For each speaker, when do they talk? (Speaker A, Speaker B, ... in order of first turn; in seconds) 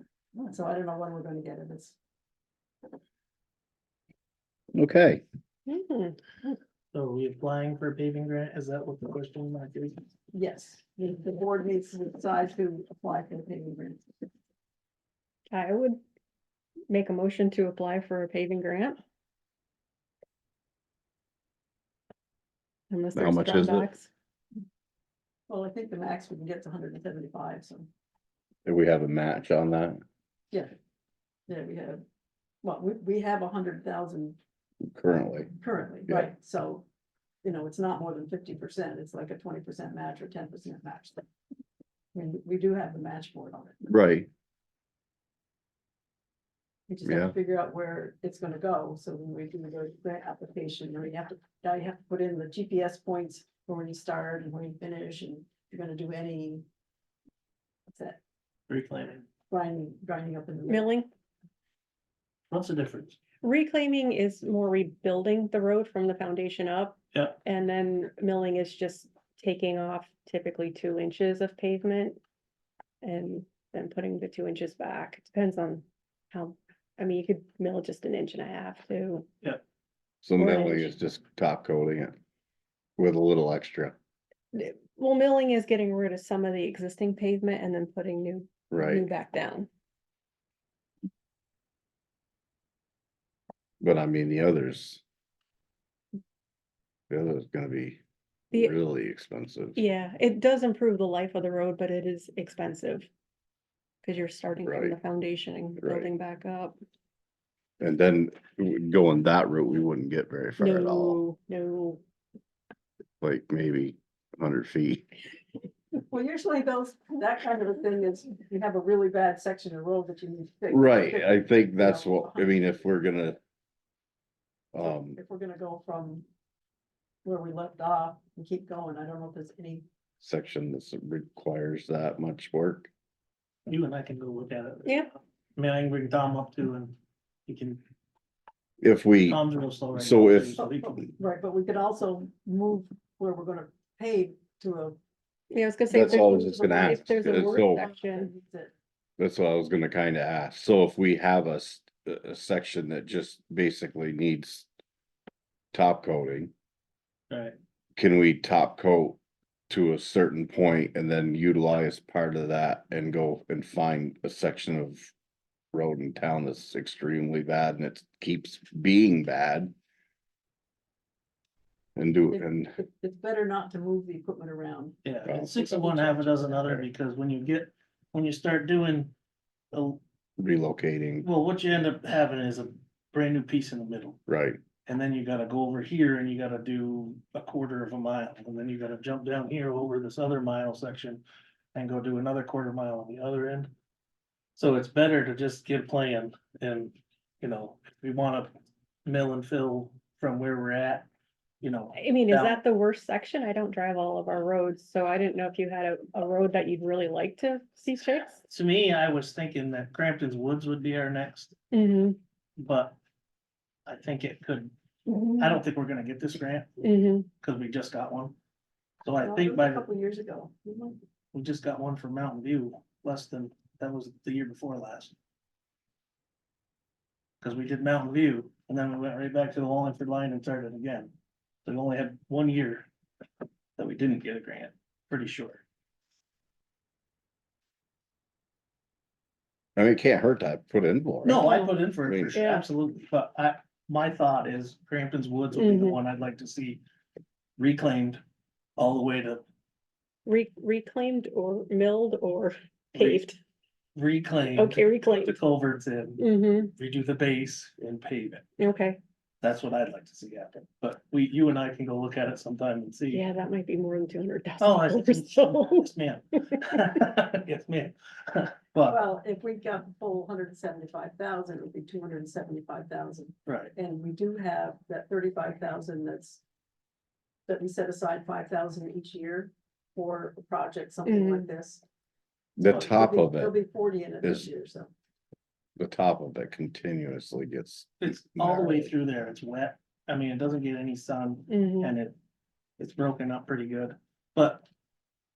Speaker A: 0.4-2.0, 10.3-14.1, 25.5-27.9, 31.5-32.0, 32.6-34.4, 35.6-36.9, 37.4-41.2, 42.1-43.8, 46.9-56.6, 57.9-58.2, 59.5-60.9, 116.0-122.9, 124.8-126.3, 127.2-129.9, 140.6-145.0, 146.0-148.7, 172.3-175.0, 219.2-221.0, 268.9-276.4, 277.5-281.8, 282.6-284.9
Speaker B: 4.7-5.2, 23.1-23.9, 28.6-30.0, 34.9-35.5, 43.9-44.3, 47.0-47.3, 80.2-82.2, 83.0-84.0, 88.7-89.1, 93.8-95.0, 97.1-98.0, 98.5-99.8, 104.7-105.0, 105.8-106.1, 107.8-111.2, 113.2-115.1, 120.7-123.4, 124.7-125.2, 130.2-132.9, 138.8-139.4, 139.9-140.6, 145.9-147.9, 149.2-154.7, 155.7-156.5, 158.0-165.1, 165.7-169.7, 172.0-172.8, 175.2-176.8, 180.4-181.3, 184.3-184.6, 239.8-242.4, 282.6-283.5, 284.2-284.5, 285.8-288.9
Speaker C: 5.7-6.3, 15.5-16.0, 16.9-19.0, 22.9-24.1, 60.7-61.1, 63.4-72.2, 73.0-79.3, 80.4-80.9, 84.5-89.7, 99.8-103.1, 104.0-106.8, 110.6-112.0, 134.9-135.1, 145.5-148.3, 202.0-208.4, 211.7-212.2, 215.1-215.5, 216.8-217.3, 241.3-241.7, 242.3-242.7, 245.5-246.0, 250.3-253.4, 254.5-255.4, 256.2-256.7, 258.6-259.0, 263.1-266.8, 281.1-281.5, 291.5-291.9
Speaker D: 6.9-10.0, 58.7-59.2, 62.5-63.2, 133.7-137.0, 137.5-137.8, 139.2-141.0, 157.3-157.6, 175.1-179.1, 179.7-180.0, 181.2-184.2, 184.9-191.2, 191.8-193.7, 194.6-198.5, 199.1-201.1, 201.6-202.6, 208.5-211.6, 212.6-213.0, 213.9-214.7, 215.4-216.7, 217.4-218.4, 219.0-219.9, 221.3-225.2, 227.4-232.9, 233.8-235.6, 241.2-246.8, 247.6-248.2, 248.8-249.4, 252.9-253.2, 253.9-258.4, 259.4-263.2, 264.6-269.0, 273.5-273.7, 288.0-292.2, 292.8-294.7